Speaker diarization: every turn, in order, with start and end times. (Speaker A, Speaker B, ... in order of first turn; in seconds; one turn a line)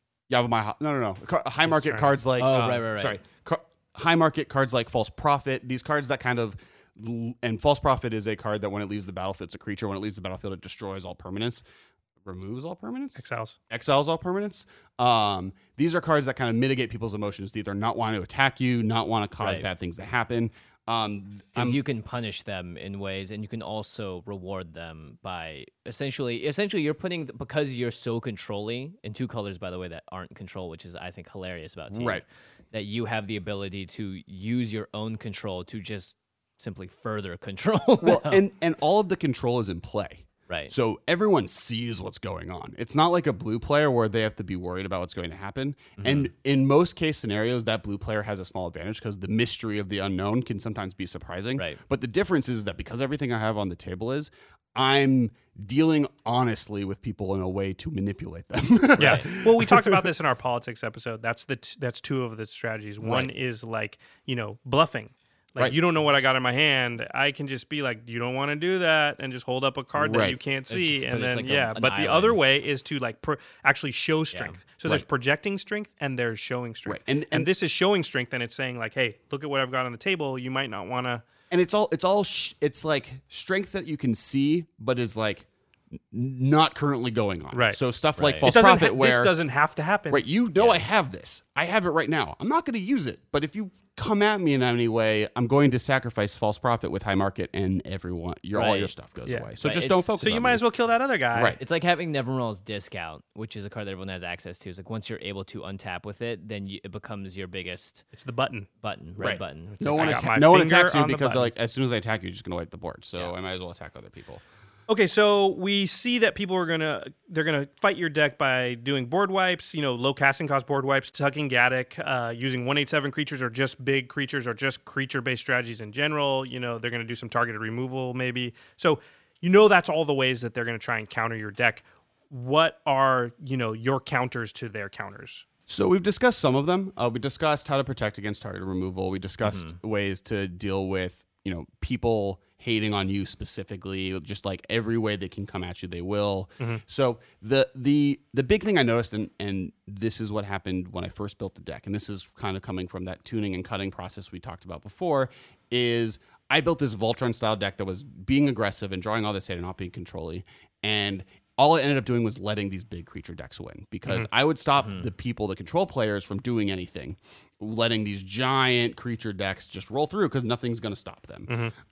Speaker A: 0.3-11.7
Speaker B: 1.7-3.2
Speaker A: 12.2-21.8
Speaker C: 13.2-13.6
Speaker B: 19.4-19.7
Speaker B: 21.6-38.4
Speaker A: 31.9-32.2
Speaker A: 38.0-60.0
Speaker B: 40.5-40.7
Speaker B: 46.0-46.3
Speaker B: 59.0-59.3
Speaker C: 59.0-81.2
Speaker A: 63.0-63.3
Speaker A: 70.0-70.4
Speaker B: 70.7-72.4
Speaker B: 74.3-74.6
Speaker A: 76.8-77.5
Speaker A: 81.5-85.5
Speaker A: 86.1-89.3
Speaker C: 87.5-87.8
Speaker B: 88.2-88.5
Speaker C: 88.4-90.2
Speaker A: 90.1-100.6
Speaker B: 90.6-90.8
Speaker B: 98.5-98.9
Speaker B: 99.6-100.2
Speaker C: 100.2-101.6
Speaker A: 101.3-101.6
Speaker B: 101.6-108.0
Speaker C: 108.1-108.7
Speaker B: 108.8-110.2
Speaker A: 109.2-114.4
Speaker C: 110.0-111.5
Speaker C: 114.9-135.4
Speaker A: 135.7-171.6
Speaker B: 139.4-139.8
Speaker B: 164.8-165.1
Speaker C: 171.5-171.7